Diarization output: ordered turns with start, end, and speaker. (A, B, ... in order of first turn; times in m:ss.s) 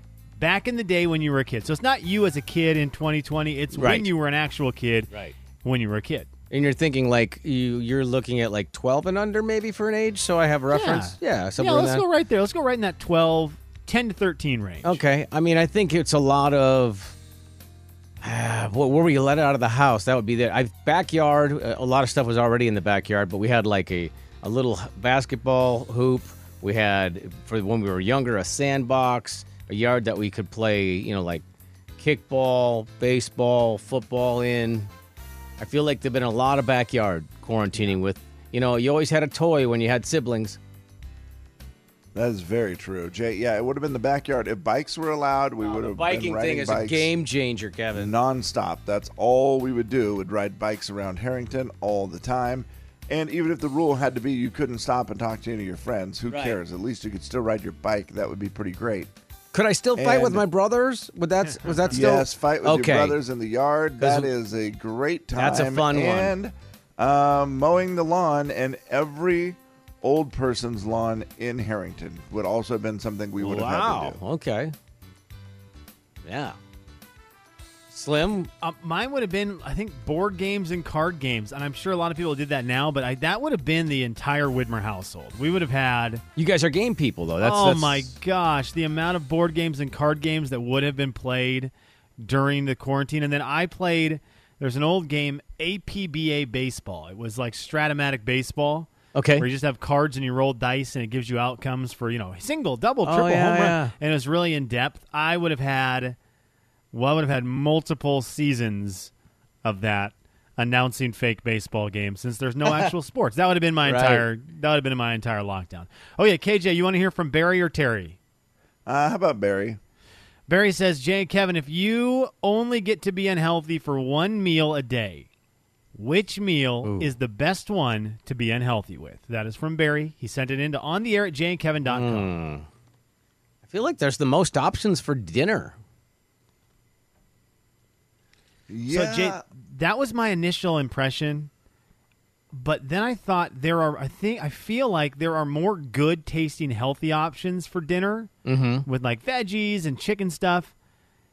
0:00.4-0:05.1 A
0:03.7-0:04.1 B
0:05.6-0:06.3 A
0:06.5-0:12.0 B
0:10.7-0:15.0 A
0:14.8-0:17.2 B
0:18.2-0:31.4 B
0:32.0-0:34.9 B
0:35.6-0:40.6 B
0:42.1-0:47.1 C
0:45.6-0:48.2 B
0:47.9-0:59.1 C
0:56.3-0:56.6 B
0:59.5-1:03.2 B
1:00.0-1:00.4 C
1:01.9-1:14.2 C
1:04.0-1:04.3 B
1:05.4-1:06.4 B
1:13.4-1:14.7 B
1:16.2-1:16.6 B
1:17.9-1:18.5 B
1:18.6-1:26.2 A
1:26.4-1:28.1 B
1:27.4-1:46.2 A
1:39.1-1:39.5 B
1:43.1-1:44.0 B
1:46.9-1:49.1 A
1:49.6-1:58.2 A
1:53.8-1:54.3 B
1:58.9-1:59.8 C
2:00.5-2:05.3 A
2:06.0-2:12.3 A
2:06.8-2:07.1 B
2:11.9-2:12.7 B
2:13.6-2:15.8 B
2:18.7-2:19.4 C
2:18.9-2:21.5 A
2:22.5-2:28.3 A
2:28.4-2:28.8 B
2:28.8-2:30.7 A